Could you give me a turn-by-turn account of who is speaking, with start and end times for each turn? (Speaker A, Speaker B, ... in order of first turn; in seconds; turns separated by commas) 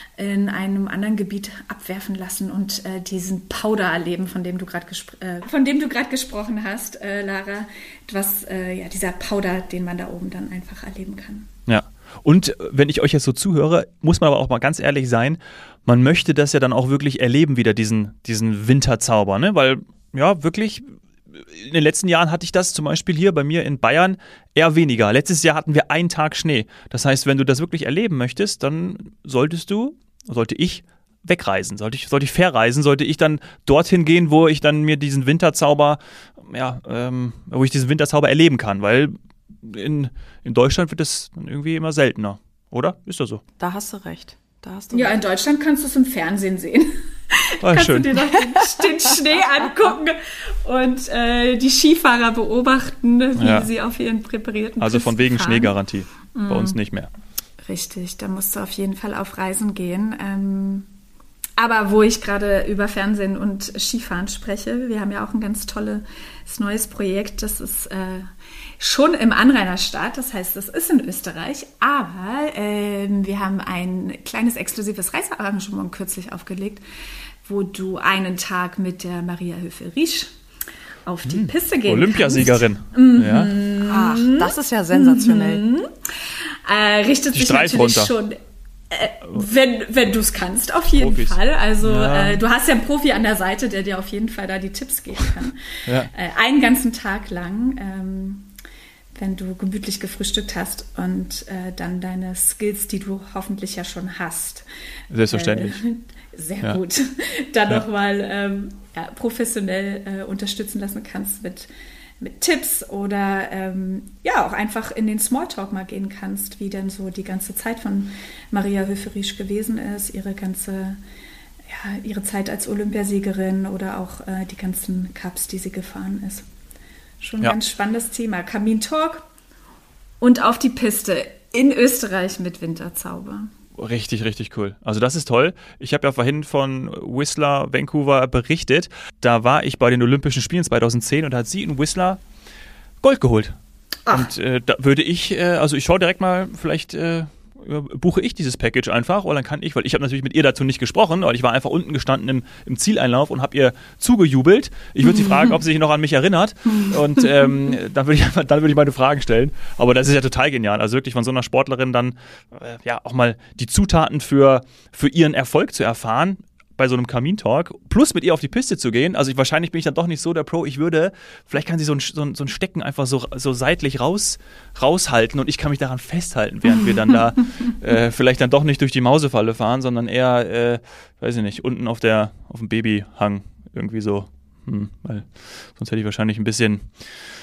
Speaker A: 0.2-11.5, Speaker B: 11.7-43.4, Speaker C: 43.6-45.2, Speaker A: 44.9-55.7, Speaker B: 47.6-48.1, Speaker C: 48.3-49.1, Speaker B: 53.4-53.7, Speaker B: 54.8-57.1, Speaker A: 56.3-56.8, Speaker A: 57.6-60.9, Speaker A: 61.6-68.3, Speaker A: 68.8-76.8, Speaker A: 77.4-80.3, Speaker A: 81.0-88.4, Speaker B: 81.2-83.5, Speaker C: 83.8-85.6, Speaker B: 87.3-88.1, Speaker A: 88.9-98.5, Speaker B: 91.0-92.4, Speaker A: 99.1-104.7, Speaker B: 105.1-105.8, Speaker A: 105.3-121.0, Speaker A: 121.7-126.4, Speaker A: 127.2-129.2, Speaker A: 130.2-133.5, Speaker B: 133.8-142.2, Speaker B: 143.0-143.6, Speaker B: 144.1-186.9, Speaker A: 155.0-155.6, Speaker A: 156.8-157.5